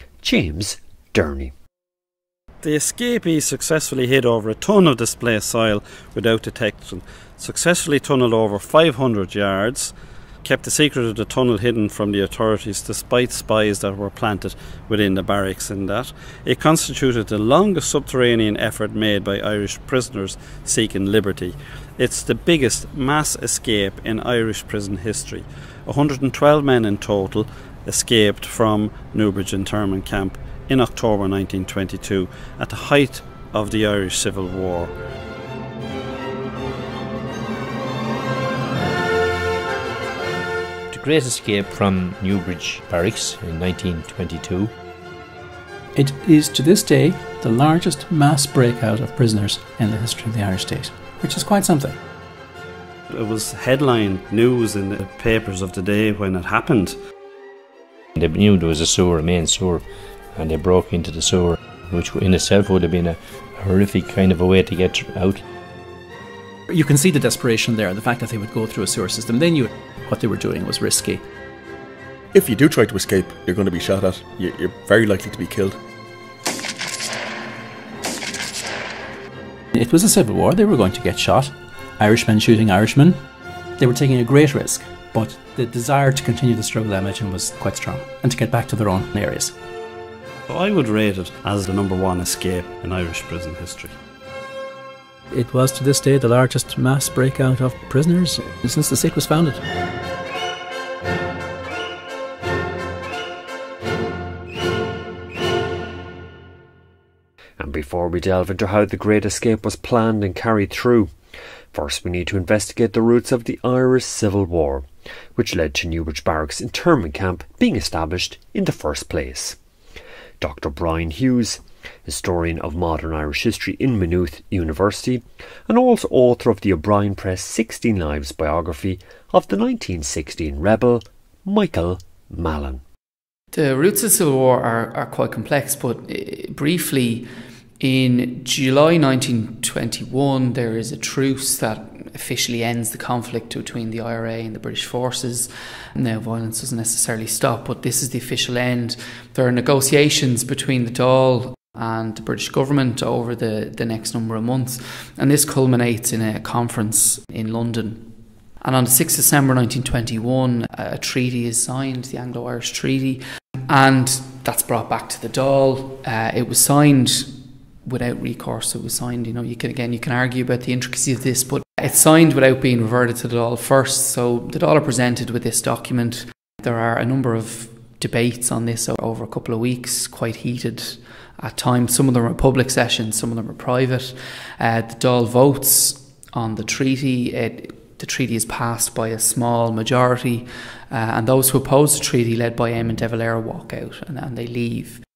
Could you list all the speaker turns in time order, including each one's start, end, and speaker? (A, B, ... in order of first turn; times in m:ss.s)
0:00.2-0:01.5 A
0:02.6-0:34.9 B
0:40.9-0:44.7 C
0:45.9-0:52.0 D
0:53.1-0:57.0 B
0:58.1-1:05.4 C
1:06.7-1:11.2 D
1:12.3-1:15.8 E
1:19.7-1:23.2 D
1:23.8-1:29.5 D
1:30.5-1:33.9 B
1:35.3-1:39.6 D
1:47.6-1:51.1 A
1:51.7-1:59.6 A
2:00.4-2:12.8 A
2:13.5-2:17.3 F
2:17.8-3:15.0 F